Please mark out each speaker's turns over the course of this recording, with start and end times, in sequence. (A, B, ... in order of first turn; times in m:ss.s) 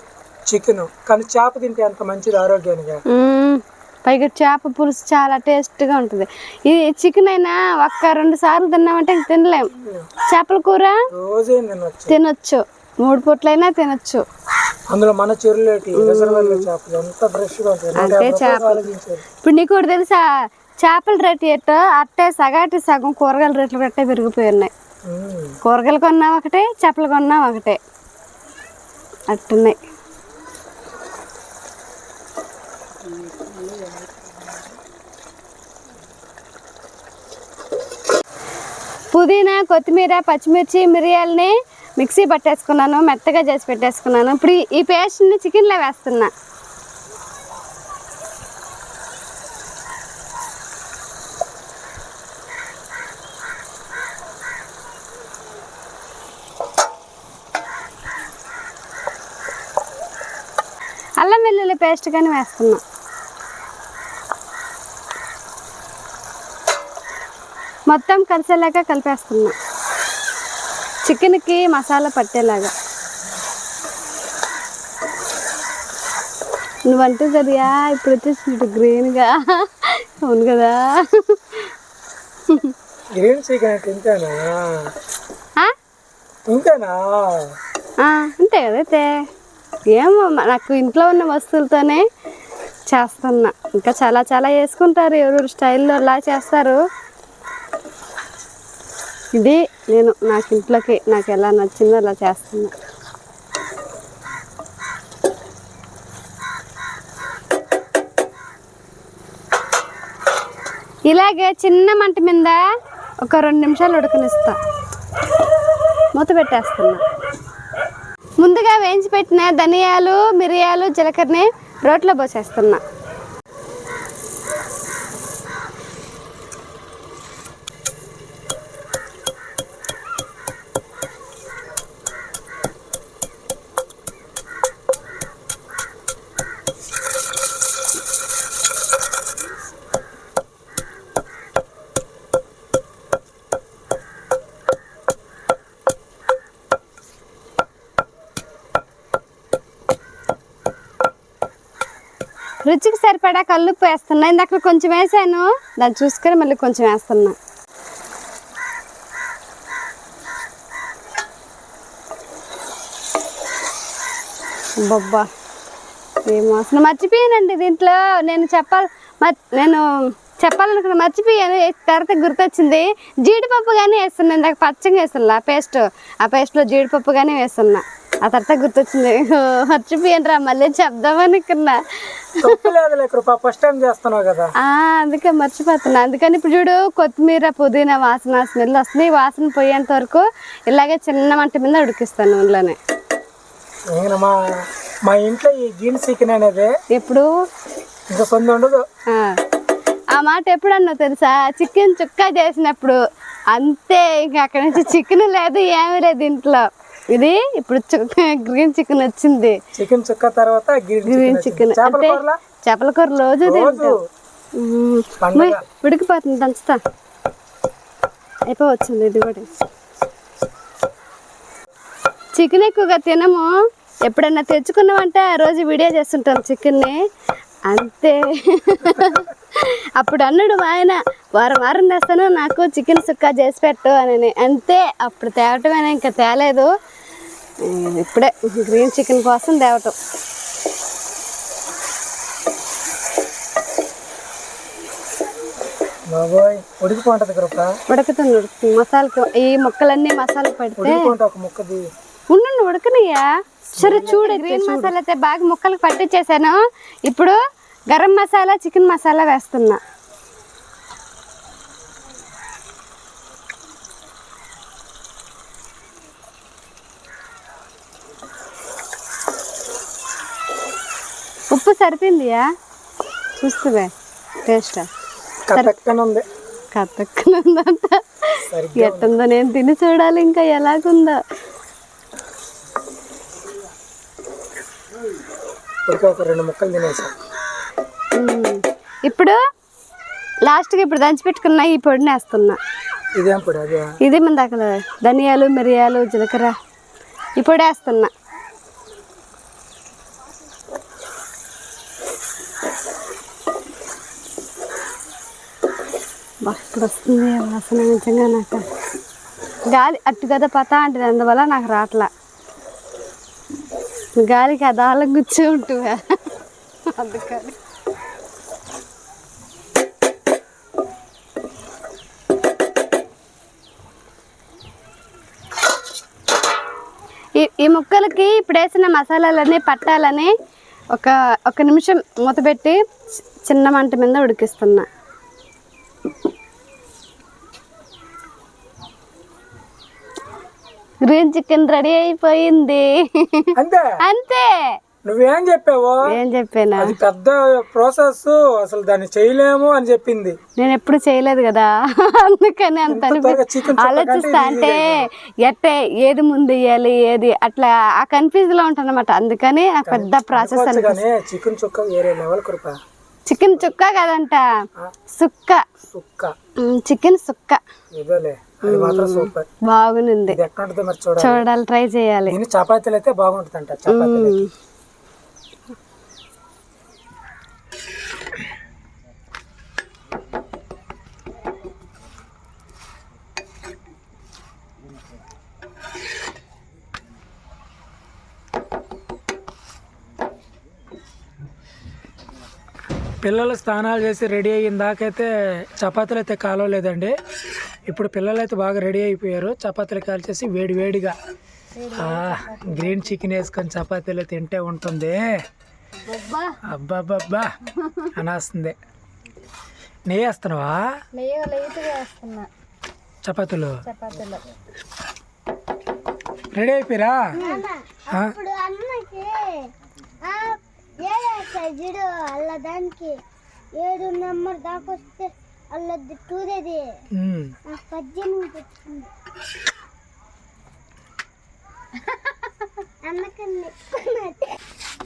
0:00.5-0:03.0 A
0:03.1-0:09.7 B
0:09.8-0:10.1 A
0:10.3-0:11.0 B
0:11.1-0:12.2 A
0:12.1-0:14.2 B
0:14.9-0:19.2 A
0:15.9-0:16.7 B
0:18.0-0:18.9 B
0:19.4-0:20.2 B
0:20.8-0:24.7 B
0:25.1-0:25.6 A
0:25.6-0:27.8 B
0:29.3-0:29.8 B
0:33.2-0:34.1 B
0:39.1-0:46.3 B
1:01.2-1:02.8 B
1:07.9-1:09.5 B
1:11.0-1:12.7 B
1:16.9-1:21.7 B
1:22.5-1:22.7 B
1:23.1-1:24.8 A
1:26.5-1:27.5 A
1:28.0-1:29.1 B
1:29.9-1:32.0 B
1:32.9-1:36.8 B
1:39.4-1:42.7 B
1:51.1-1:52.6 B
1:53.2-1:54.6 B
1:56.2-1:57.0 B
1:58.4-2:02.8 B
2:32.6-2:37.4 B
2:44.8-2:45.3 B
2:46.3-3:01.8 B
3:02.4-3:04.5 A
3:02.4-3:02.6 B
3:04.6-3:12.8 B
3:13.9-3:14.4 A
3:15.0-3:16.7 A
3:16.9-3:17.3 B
3:18.1-3:18.8 A
3:19.1-3:19.4 B
3:20.1-3:23.0 B
3:23.5-3:29.6 B
3:29.7-3:32.4 A
3:31.0-3:33.9 B
3:33.4-3:34.0 A
3:34.6-3:36.8 B
3:35.2-3:35.6 A
3:38.5-3:39.6 B
3:42.4-3:43.5 B
3:44.0-3:47.0 B
3:47.6-3:56.7 B
3:57.6-3:59.9 B
4:06.1-4:07.7 A
4:07.9-4:11.1 B
4:10.8-4:11.8 A
4:12.3-4:17.4 B
4:13.8-4:14.9 A
4:17.9-4:19.8 B
4:31.5-4:32.4 B
4:33.4-4:33.9 B
4:34.4-4:34.9 B
4:35.5-4:36.2 A
4:36.7-4:41.2 B
4:38.5-4:39.1 A
4:45.8-4:47.1 A
4:48.2-4:49.4 B
4:50.5-4:52.6 B
4:53.2-4:53.9 A
4:54.0-4:56.5 B
4:57.4-4:58.1 B
5:06.4-5:08.6 B
5:09.7-5:12.1 B
5:14.2-5:16.0 B
5:16.9-5:17.6 B
5:27.4-5:30.3 B
5:30.9-5:32.8 B
5:33.4-5:34.8 B
5:41.0-5:44.8 B
5:43.6-5:43.9 A
5:45.0-5:46.0 A
5:46.1-5:47.0 B
5:46.8-5:50.4 A
5:50.6-6:01.0 B
5:52.9-5:55.1 A
5:59.8-6:02.8 A
6:03.2-6:04.4 B
6:05.1-6:05.6 B
6:05.9-6:06.3 A
6:06.6-6:07.6 B
6:07.9-6:09.5 A
6:08.6-6:10.4 B
6:10.3-6:11.4 A
6:11.2-6:12.4 B
6:12.3-6:14.4 A
6:13.9-6:14.5 B
6:33.2-6:37.1 A
6:37.9-6:41.1 A
6:41.7-6:43.2 B
6:42.0-6:45.2 A
6:46.0-6:46.5 B
6:46.7-6:47.5 A
6:47.8-6:48.1 B
6:48.1-6:48.7 A
6:50.1-6:50.8 A
6:51.2-6:52.5 B
6:53.2-6:53.7 A
6:53.8-6:54.4 B
6:56.5-6:57.2 A
6:57.3-6:57.6 B
6:57.3-6:59.7 C
6:58.1-6:58.4 A
7:00.2-7:03.2 C
7:03.8-7:07.0 C
7:07.1-7:07.6 A
7:07.7-7:09.1 C
7:13.0-7:14.5 C